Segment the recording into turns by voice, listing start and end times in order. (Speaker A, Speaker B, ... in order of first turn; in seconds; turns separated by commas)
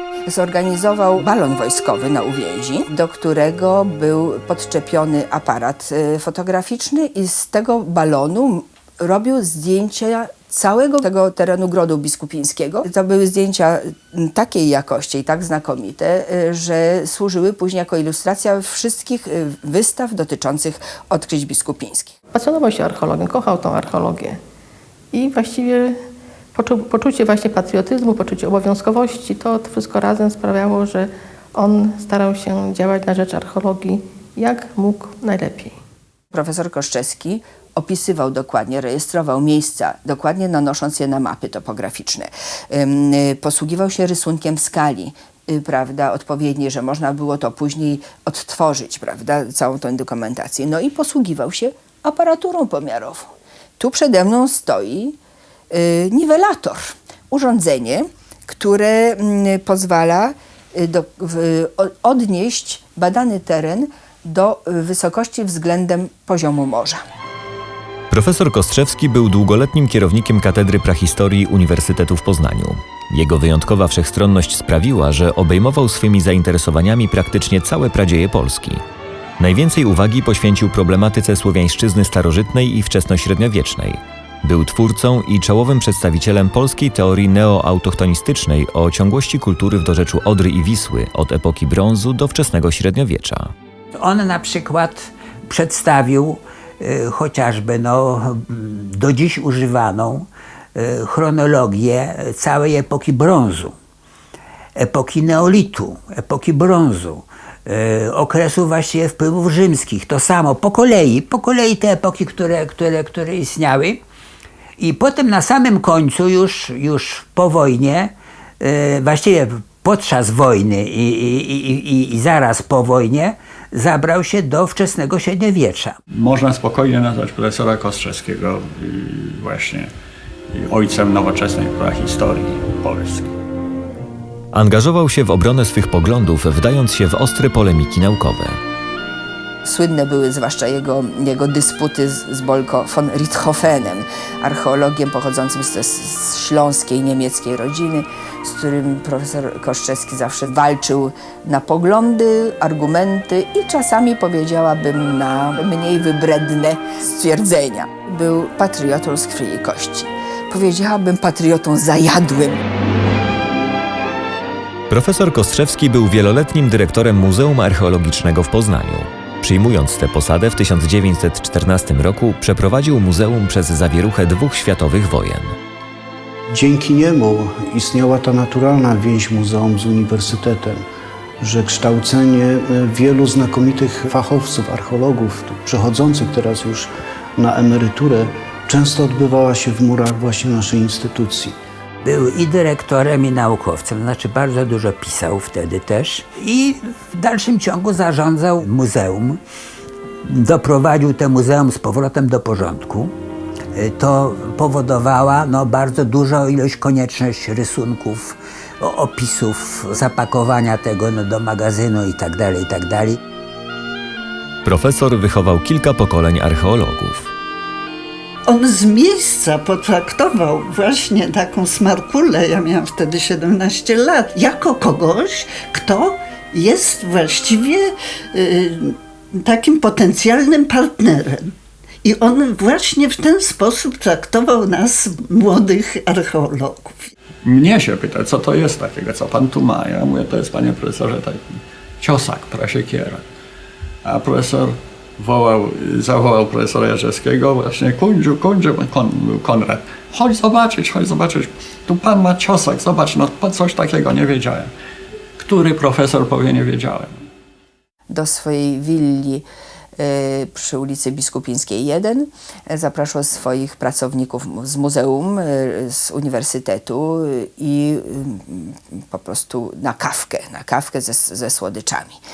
Speaker A: 0.3-22.1, Speaker B: 22.3-24.4, Speaker B: 25.1-25.9, Speaker B: 26.5-35.8, Speaker A: 36.3-55.1, Speaker A: 55.7-67.0, Speaker C: 68.1-78.8, Speaker C: 79.4-93.5, Speaker D: 93.9-103.8, Speaker D: 104.8-114.0, Speaker D: 114.8-126.0, Speaker E: 126.1-129.9, Speaker E: 130.5-133.3, Speaker C: 134.5-138.6, Speaker A: 139.6-162.6, Speaker C: 164.9-175.6, Speaker F: 176.5-180.8, Speaker F: 181.4-191.5, Speaker D: 192.0-199.4, Speaker D: 200.2-203.1, Speaker D: 203.7-213.2, Speaker C: 214.6-217.3, Speaker G: 218.5-237.1, Speaker E: 237.4-243.2, Speaker E: 244.0-254.7, Speaker E: 255.4-257.1, Speaker A: 258.1-259.4, Speaker A: 260.0-272.2